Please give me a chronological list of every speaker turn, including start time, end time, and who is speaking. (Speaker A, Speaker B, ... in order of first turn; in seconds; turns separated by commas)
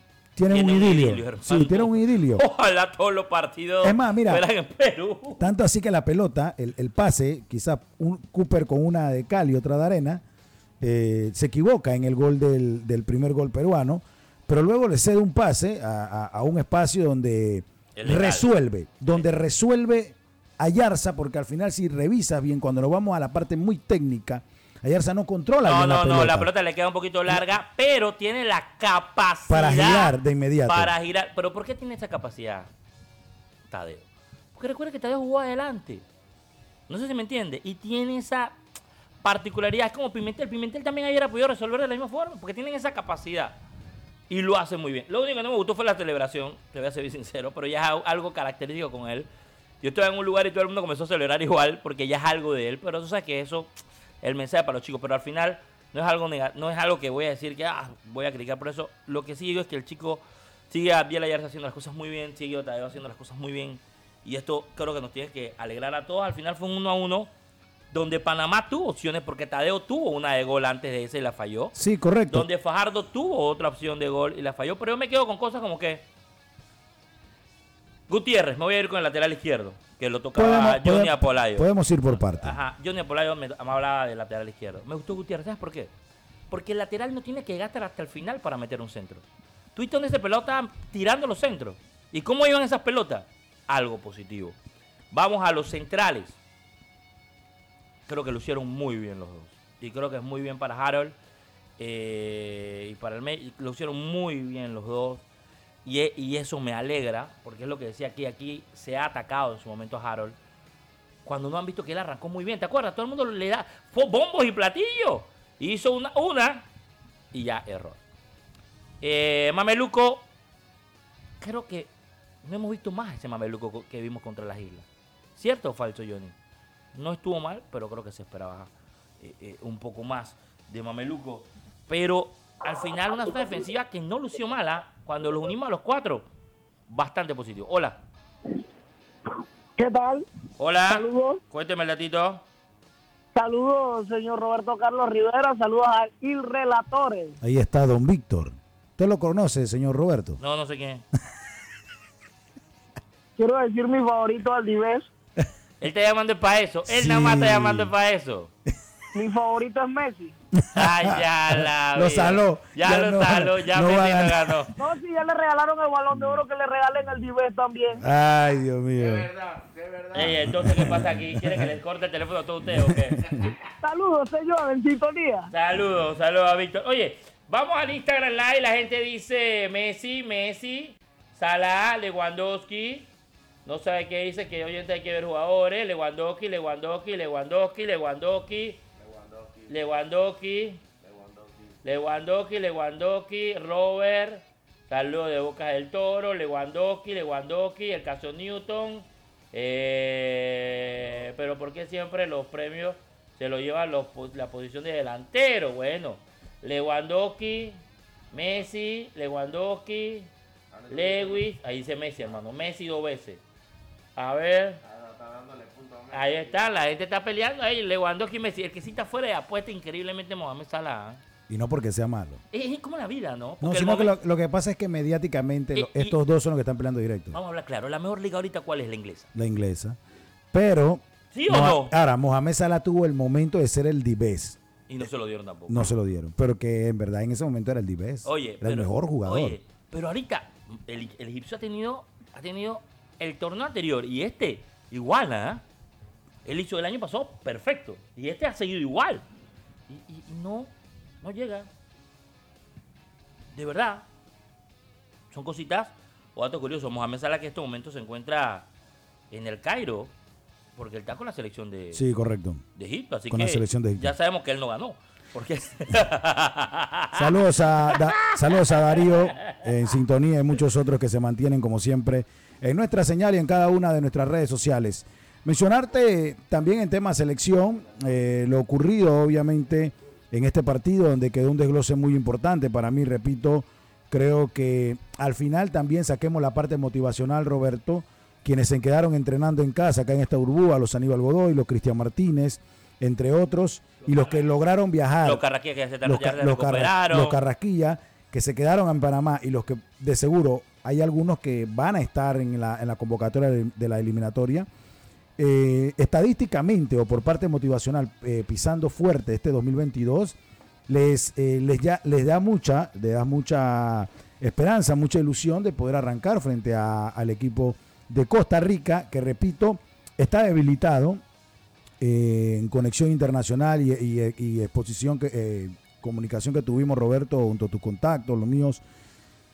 Speaker A: 0.3-2.4, Speaker B: 0.5-5.4, Speaker A: 3.8-4.4, Speaker A: 5.4-10.2, Speaker A: 10.8-26.5, Speaker B: 17.9-18.5, Speaker B: 25.6-32.7, Speaker A: 29.5-30.9, Speaker B: 33.7-36.0, Speaker B: 36.9-38.5, Speaker B: 39.2-43.6, Speaker B: 44.3-49.3, Speaker B: 49.8-53.7, Speaker B: 54.2-67.3, Speaker B: 67.9-71.7, Speaker A: 71.7-72.5, Speaker B: 72.3-76.0, Speaker B: 78.1-85.9, Speaker A: 80.3-82.6, Speaker B: 86.5-94.5, Speaker B: 95.1-96.4, Speaker B: 98.1-101.2, Speaker B: 101.8-105.2, Speaker B: 105.8-110.3, Speaker B: 111.2-116.6, Speaker B: 117.3-118.0, Speaker B: 119.0-120.2, Speaker B: 121.4-121.9, Speaker B: 122.4-124.8, Speaker B: 125.4-126.3, Speaker B: 126.9-136.2, Speaker B: 136.9-138.0, Speaker C: 139.8-140.2, Speaker B: 140.6-142.4, Speaker C: 140.9-141.4, Speaker C: 143.3-147.3, Speaker A: 147.4-150.4, Speaker B: 150.4-151.0, Speaker C: 153.4-155.1, Speaker B: 155.8-158.5, Speaker A: 156.9-157.9, Speaker C: 159.1-160.3, Speaker A: 160.6-161.2, Speaker B: 160.7-164.7, Speaker A: 161.9-164.7, Speaker C: 164.8-168.0, Speaker A: 168.0-169.3, Speaker B: 170.1-173.2, Speaker A: 170.4-171.6, Speaker A: 172.7-173.5, Speaker C: 173.8-175.5, Speaker B: 175.5-183.1, Speaker B: 183.7-188.8, Speaker B: 189.7-190.8, Speaker B: 191.8-207.8, Speaker B: 208.3-210.3, Speaker B: 210.9-213.4, Speaker B: 214.2-214.8, Speaker B: 216.1-221.2, Speaker A: 221.5-222.4, Speaker B: 222.5-224.2, Speaker A: 223.6-227.3, Speaker B: 225.7-226.2, Speaker B: 227.3-229.3, Speaker A: 229.3-230.0, Speaker A: 230.5-234.6, Speaker B: 231.3-231.9, Speaker B: 234.9-235.9, Speaker A: 235.7-239.6, Speaker B: 238.2-245.6, Speaker B: 246.4-249.2, Speaker B: 249.9-250.7, Speaker B: 251.2-251.7, Speaker B: 253.5-254.0, Speaker B: 255.3-258.6, Speaker B: 259.3-260.1, Speaker B: 260.8-262.0, Speaker A: 261.9-262.6, Speaker B: 262.8-267.3, Speaker A: 263.3-264.1, Speaker A: 267.1-295.4, Speaker B: 267.9-269.6, Speaker B: 295.2-297.4, Speaker A: 296.0-304.7, Speaker A: 305.4-310.4, Speaker A: 310.9-321.2, Speaker A: 322.0-328.8